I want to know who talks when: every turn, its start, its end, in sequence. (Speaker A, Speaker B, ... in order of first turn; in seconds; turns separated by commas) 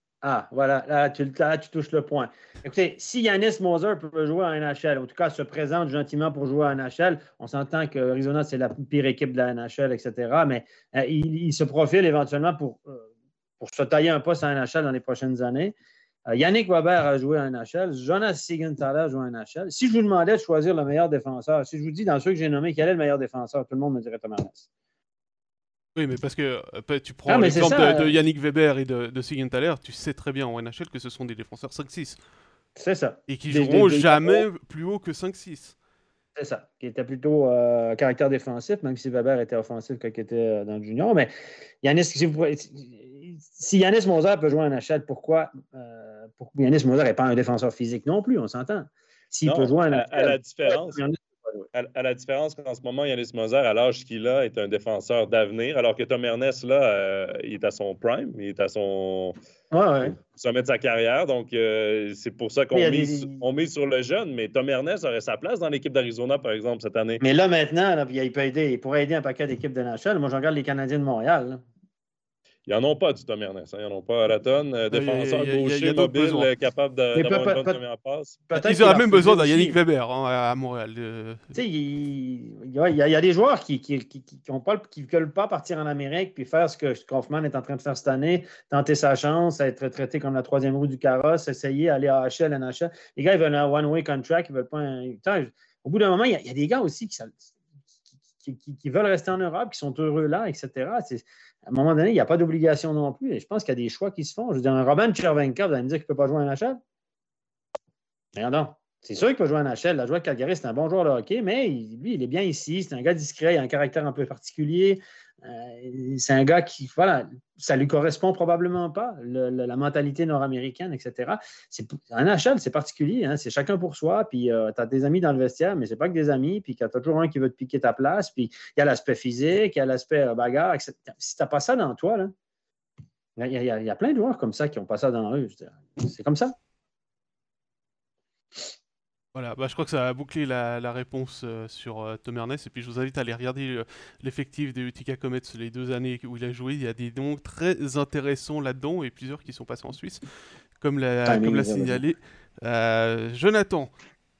Speaker A: 0.2-13.1, Speaker A: 13.6-24.7, Speaker B: 26.0-32.2, Speaker A: 27.3-28.1, Speaker A: 32.8-34.5, Speaker B: 33.3-35.8, Speaker A: 36.4-41.3, Speaker A: 41.8-51.7, Speaker C: 49.5-51.0, Speaker C: 51.7-59.4, Speaker A: 59.7-60.2, Speaker C: 60.0-67.2, Speaker A: 62.7-63.4, Speaker A: 67.2-71.6, Speaker C: 72.7-78.4, Speaker B: 74.9-76.5, Speaker A: 77.1-77.8, Speaker A: 78.5-79.8, Speaker B: 78.5-81.5, Speaker A: 81.5-97.5, Speaker A: 98.4-106.8, Speaker A: 108.3-132.3, Speaker A: 133.4-136.6, Speaker B: 139.3-150.2, Speaker B: 150.8-153.9, Speaker A: 151.3-152.0